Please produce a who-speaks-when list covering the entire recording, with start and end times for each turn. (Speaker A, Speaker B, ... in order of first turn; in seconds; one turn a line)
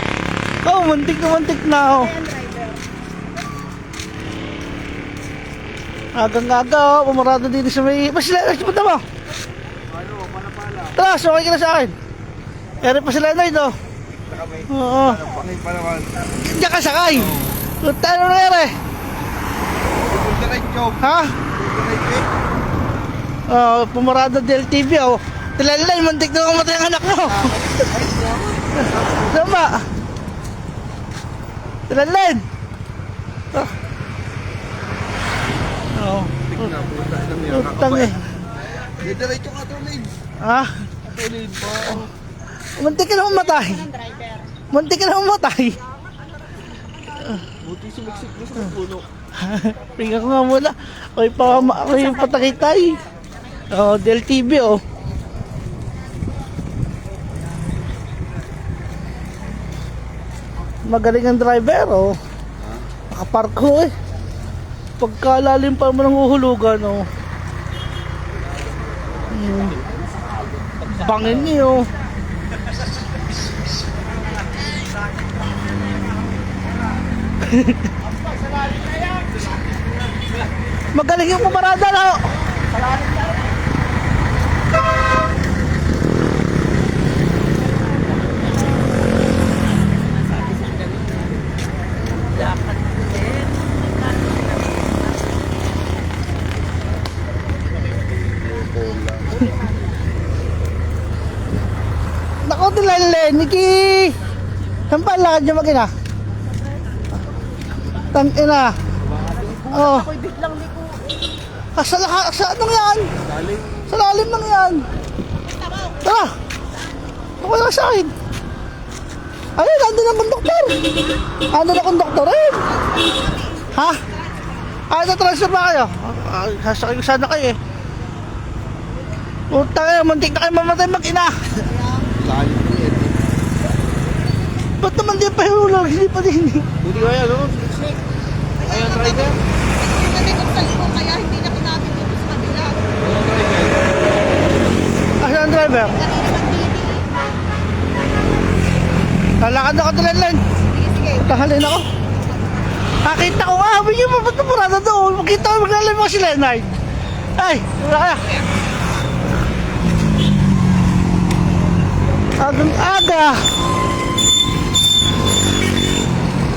Speaker A: 0.6-2.1
Speaker B: 1.8-2.8
Speaker A: 6.1-9.0
Speaker C: 10.0-10.9
Speaker A: 10.9-11.9
Speaker A: 12.8-13.7
Speaker C: 14.3-16.2
Speaker A: 14.7-15.3
Speaker A: 16.3-18.8
Speaker C: 20.1-21.0
Speaker A: 21.0-21.3
Speaker C: 21.5-22.3
Speaker A: 23.5-27.6
Speaker C: 27.5-29.1
Speaker A: 28.9-29.9
Speaker A: 31.9-32.4
Speaker A: 35.9-36.7
Speaker C: 36.5-38.1
Speaker A: 37.5-38.4
Speaker C: 38.7-40.1
Speaker A: 40.4-40.9
Speaker C: 41.0-42.1
Speaker A: 42.8-43.9
Speaker B: 43.2-44.5
Speaker A: 44.7-45.8
Speaker C: 47.6-49.0
Speaker A: 49.4-53.0
Speaker B: 52.0-52.9
Speaker A: 53.7-54.8
Speaker A: 60.8-62.2
Speaker A: 63.1-63.9
Speaker A: 65.0-67.1
Speaker A: 69.3-69.8
Speaker A: 70.8-71.9
Speaker A: 77.4-77.8
Speaker A: 80.9-82.3
Speaker B: 90.6-90.9
Speaker B: 92.4-93.4
Speaker C: 98.6-99.3
Speaker A: 102.4-104.2
Speaker A: 104.9-105.9
Speaker A: 108.1-108.7
Speaker B: 109.4-111.0
Speaker A: 109.7-110.1
Speaker A: 111.7-113.1
Speaker C: 113.3-113.8
Speaker A: 113.9-114.8
Speaker B: 115.4-116.0
Speaker A: 116.0-116.3
Speaker A: 117.4-118.1
Speaker A: 119.6-120.8
Speaker A: 121.5-122.7
Speaker B: 122.9-124.7
Speaker A: 123.7-124.0
Speaker A: 124.9-127.6
Speaker A: 129.5-131.5
Speaker B: 131.6-132.1
Speaker C: 132.2-133.2
Speaker A: 134.8-136.7
Speaker C: 136.8-138.0
Speaker B: 138.6-142.9
Speaker C: 138.7-139.3
Speaker C: 143.1-143.8
Speaker A: 145.2-146.0
Speaker B: 145.9-147.2
Speaker A: 149.4-150.4
Speaker B: 150.6-151.5
Speaker A: 151.2-151.9
Speaker A: 153.0-156.7
Speaker A: 157.4-158.3
Speaker A: 162.4-163.4